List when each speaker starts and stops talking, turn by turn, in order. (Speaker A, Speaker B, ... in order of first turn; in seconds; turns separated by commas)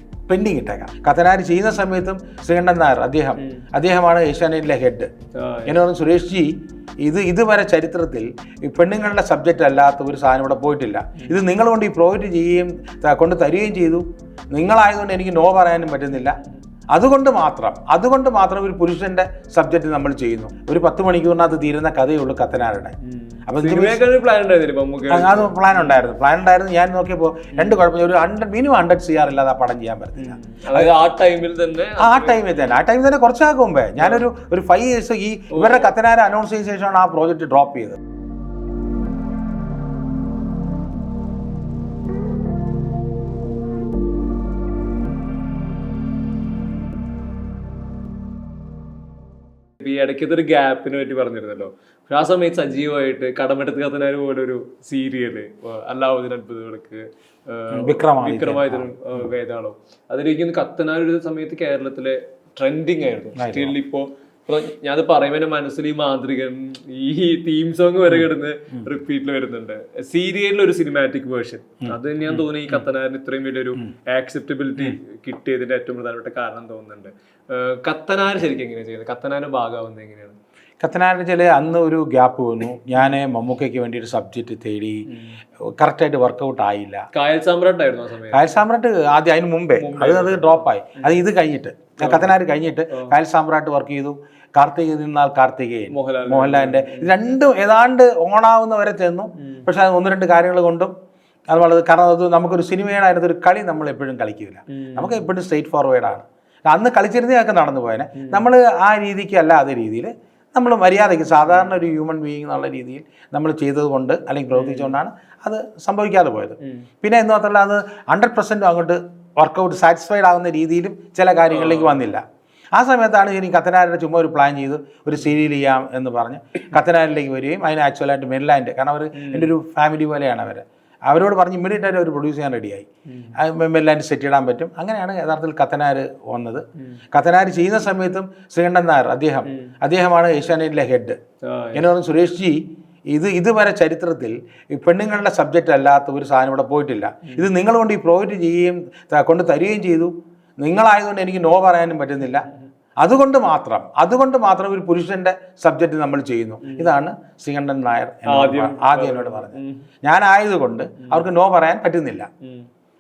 Speaker A: 0.3-5.1, Speaker B: 3.4-3.6, Speaker B: 5.3-5.8, Speaker A: 5.7-16.4, Speaker A: 16.9-23.0, Speaker B: 23.0-26.1, Speaker A: 23.5-24.1, Speaker A: 25.1-30.9, Speaker B: 27.5-27.9, Speaker B: 30.2-32.8, Speaker A: 32.0-38.0, Speaker B: 34.0-34.3, Speaker B: 35.5-35.9, Speaker B: 49.8-80.4, Speaker A: 57.7-58.9, Speaker A: 63.4-63.8, Speaker A: 68.1-68.9, Speaker A: 71.8-72.8, Speaker A: 80.8-85.1, Speaker B: 85.1-85.4, Speaker A: 85.8-87.1, Speaker B: 87.1-88.6, Speaker A: 88.3-100.9, Speaker B: 89.8-91.2, Speaker B: 92.0-93.2, Speaker B: 95.9-97.1, Speaker B: 99.4-99.7, Speaker A: 101.5-122.2, Speaker B: 104.7-105.3, Speaker B: 108.2-108.5, Speaker B: 111.5-111.8, Speaker B: 114.5-115.0, Speaker B: 121.5-122.1, Speaker A: 122.8-141.2, Speaker B: 129.2-129.5, Speaker B: 133.1-133.4, Speaker B: 139.5-139.7, Speaker B: 141.4-141.9, Speaker A: 141.8-152.5, Speaker B: 152.2-152.7, Speaker A: 153.0-162.3, Speaker B: 156.6-157.0, Speaker B: 158.3-159.9, Speaker B: 161.0-161.3